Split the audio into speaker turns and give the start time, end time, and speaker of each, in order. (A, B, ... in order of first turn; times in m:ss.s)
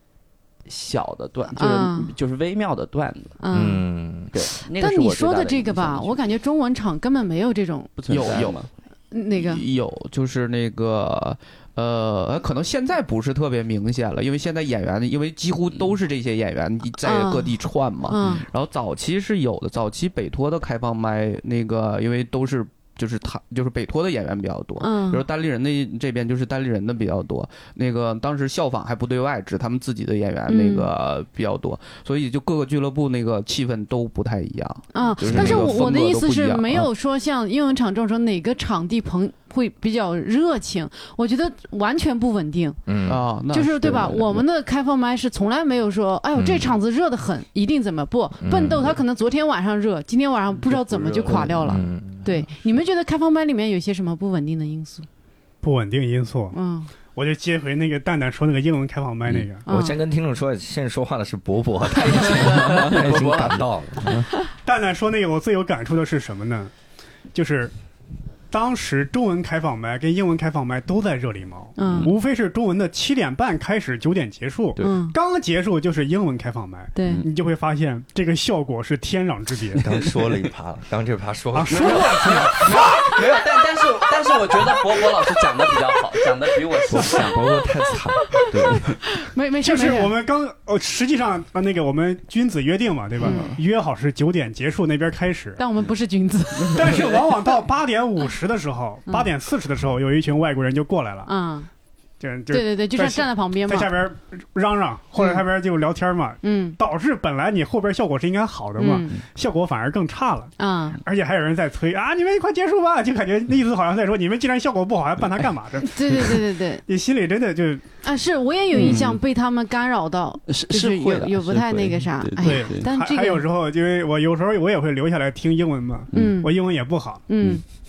0:00.7-0:03.4 A
0:01.6-0:02.1 B
0:03.4-0:03.8 B
0:03.5-0:04.3 C
0:04.3-0:06.3 A
0:04.4-0:07.9 B
0:08.0-0:08.7 A
0:08.1-0:08.6 D
0:09.1-0:09.6 B
0:09.3-0:36.9 D
0:17.0-0:18.5 B
0:24.8-0:25.2 B
0:30.5-0:30.9 B
0:34.9-0:42.8 B
0:35.3-0:35.8 C
0:42.9-0:43.2 C
0:43.1-0:44.5 D
0:43.5-0:55.1 B
0:46.4-0:46.8 C
0:48.4-0:49.0 C
0:50.7-0:51.6 A
0:51.5-0:52.2 C
0:55.6-0:56.6 E
0:56.5-0:56.9 B
0:57.1-0:59.6 E
0:59.3-1:04.3 C
0:59.7-1:00.0 B
1:02.2-1:03.6 A
1:04.6-1:06.7 E
1:07.3-1:07.7 E
1:08.5-1:19.8 E
1:11.8-1:12.1 B
1:14.8-1:15.2 B
1:17.0-1:17.3 B
1:19.8-1:22.6 C
1:21.5-1:23.2 E
1:21.7-1:27.6 A
1:26.9-1:28.8 C
1:28.3-1:30.1 B
1:28.5-1:29.0 A
1:29.6-1:35.6 E
1:33.2-1:33.6 B
1:35.6-1:37.1 B
1:36.7-1:41.3 E
1:41.3-1:41.7 B
1:42.2-1:50.5 E
1:42.5-1:43.9 B
1:46.4-1:46.8 B
1:48.8-1:49.1 B
1:50.6-1:51.0 B
1:51.0-1:57.9 E
1:55.8-1:56.9 B
1:58.0-2:03.4 B
1:58.7-1:59.2 A
2:00.5-2:02.9 A
2:02.4-2:07.2 E
2:06.1-2:06.6 B
2:07.3-2:07.6 B